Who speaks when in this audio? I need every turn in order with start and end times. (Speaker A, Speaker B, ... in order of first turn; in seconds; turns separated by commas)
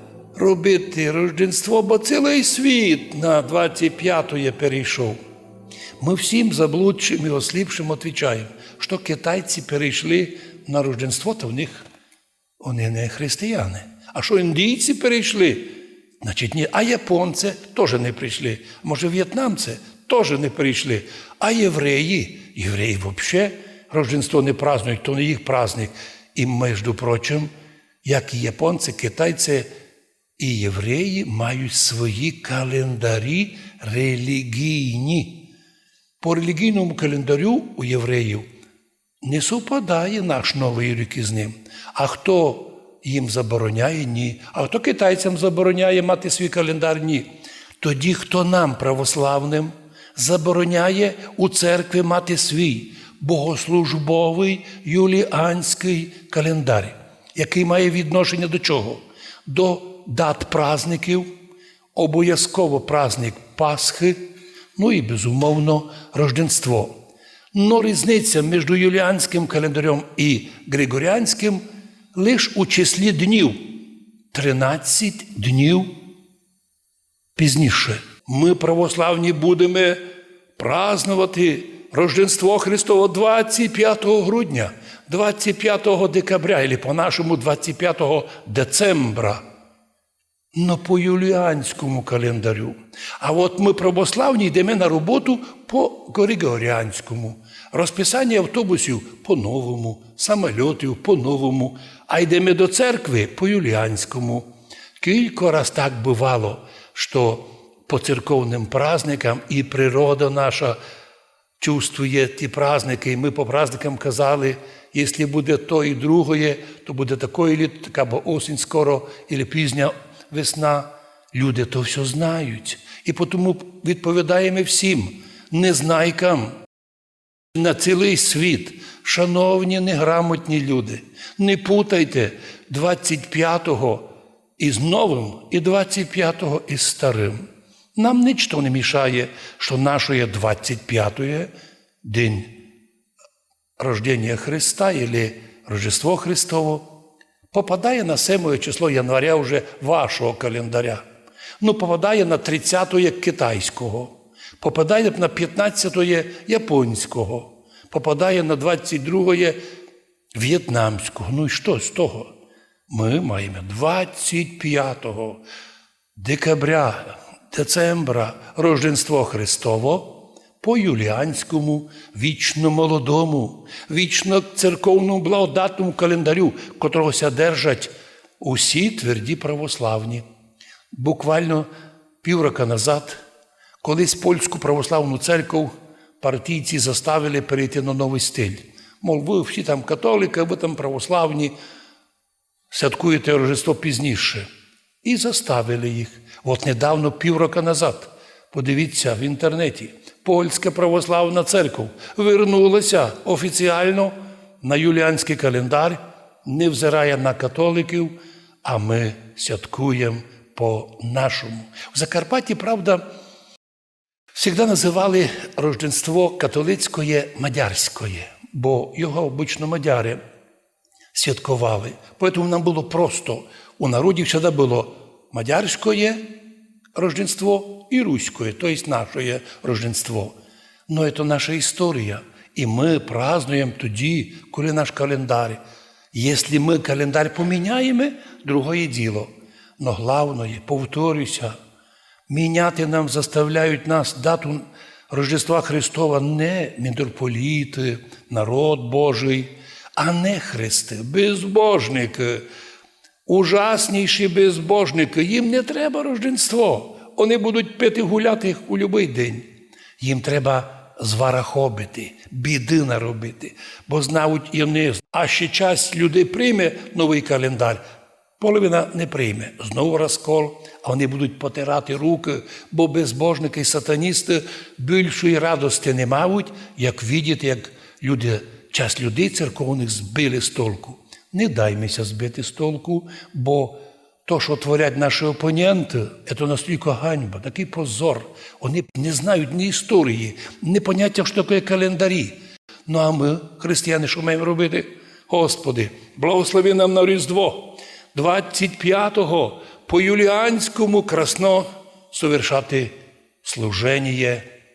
Speaker A: 0.3-5.2, Speaker A: 6.0-11.9, Speaker A: 12.6-27.5, Speaker A: 28.0-29.7, Speaker A: 30.4-35.5, Speaker A: 36.2-38.5, Speaker A: 39.2-47.3, Speaker A: 47.8-61.3, Speaker A: 62.0-64.2, Speaker A: 64.8-66.9, Speaker A: 67.5-71.6, Speaker A: 72.1-73.7, Speaker A: 74.3-75.9, Speaker A: 77.4-80.0, Speaker A: 80.6-89.4, Speaker A: 90.5-110.8, Speaker A: 111.6-126.5, Speaker A: 127.5-134.1, Speaker A: 134.6-137.4, Speaker A: 137.9-141.5, Speaker A: 142.0-142.6, Speaker A: 143.8-146.9, Speaker A: 147.5-151.0, Speaker A: 151.6-159.6, Speaker A: 160.3-162.3, Speaker A: 162.9-165.4, Speaker A: 166.2-180.2, Speaker A: 180.9-181.7, Speaker A: 182.2-183.2, Speaker A: 183.8-191.5, Speaker A: 192.7-194.5, Speaker A: 195.0-213.0, Speaker A: 214.3-220.2, Speaker A: 221.1-226.3, Speaker A: 226.9-230.4, Speaker A: 230.9-235.6, Speaker A: 236.1-241.6, Speaker A: 242.3-252.4, Speaker A: 253.3-259.5, Speaker A: 260.0-267.8, Speaker A: 268.4-292.4, Speaker A: 292.9-304.5